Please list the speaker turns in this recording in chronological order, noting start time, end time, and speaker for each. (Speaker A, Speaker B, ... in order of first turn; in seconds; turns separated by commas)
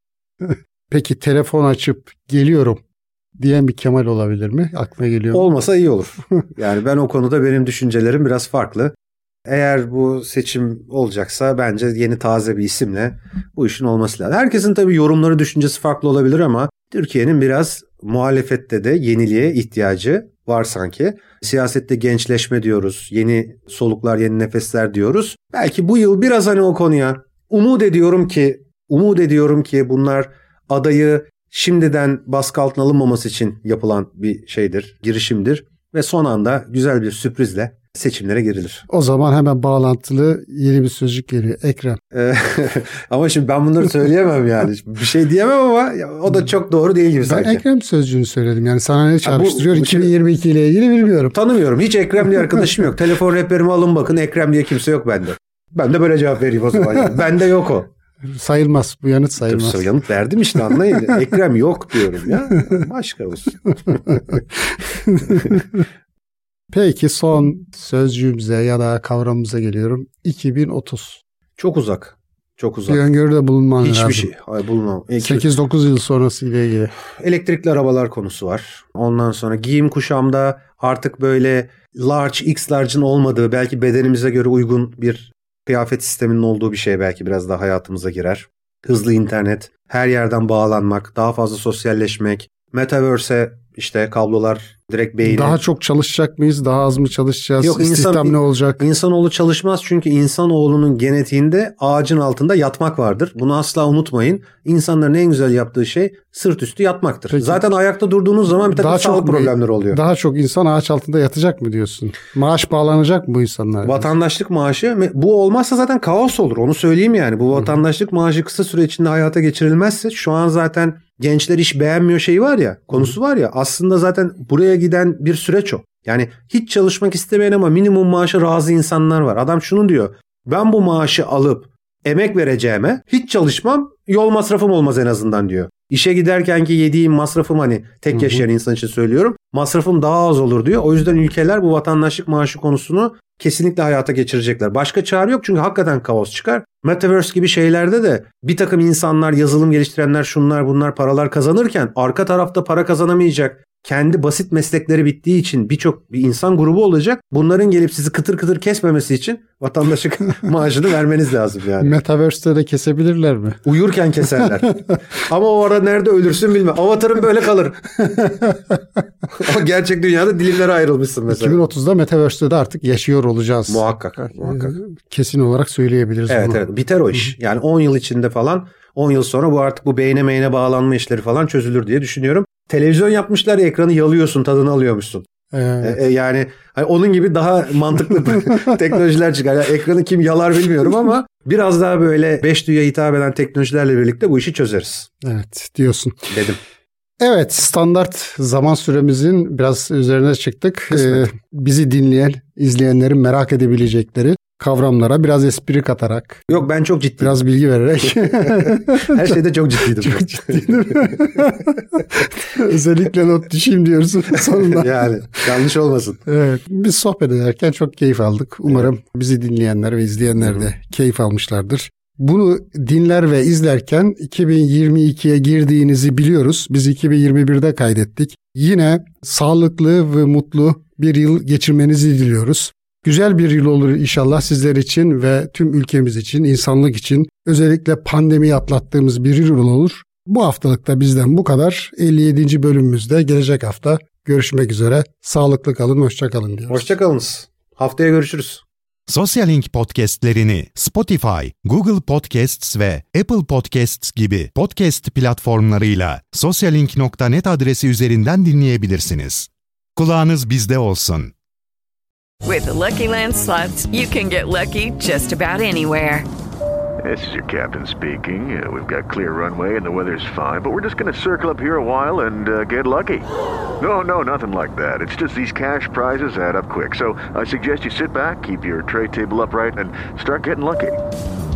Speaker A: 0.4-2.8, Speaker A: 3.4-5.5, Speaker B: 5.3-8.9, Speaker B: 9.5-38.9, Speaker A: 38.9-42.0, Speaker B: 42.1-47.6, Speaker A: 47.2-51.4, Speaker B: 49.3-50.1, Speaker B: 51.3-57.9, Speaker A: 58.2-59.8, Speaker B: 59.4-64.2, Speaker A: 64.3-65.8, Speaker A: 66.7-71.2, Speaker B: 71.6-73.0, Speaker A: 72.9-74.3, Speaker B: 73.8-75.5, Speaker A: 75.2-76.9, Speaker B: 77.2-95.6, Speaker A: 95.2-98.8, Speaker B: 97.6-110.0, Speaker A: 107.3-107.6, Speaker A: 108.6-114.1, Speaker B: 113.8-161.9, Speaker A: 161.8-163.6, Speaker B: 163.6-167.8, Speaker A: 168.0-168.8, Speaker B: 169.4-171.6, Speaker A: 171.3-176.6, Speaker B: 173.7-174.8, Speaker B: 176.3-185.2, Speaker A: 185.5-186.0, Speaker B: 185.8-195.1, Speaker A: 195.2-196.2, Speaker B: 196.3-196.6, Speaker A: 197.2-206.4, Speaker B: 200.9-201.3, Speaker B: 206.5-207.4, Speaker A: 207.2-209.4, Speaker B: 208.6-211.3, Speaker A: 210.0-214.9, Speaker B: 214.6-216.2, Speaker A: 216.3-246.9, Speaker B: 246.7-248.6, Speaker C: 249.1-261.3, Speaker D: 262.4-266.3, Speaker E: 267.0-273.3, Speaker E: 273.8-281.0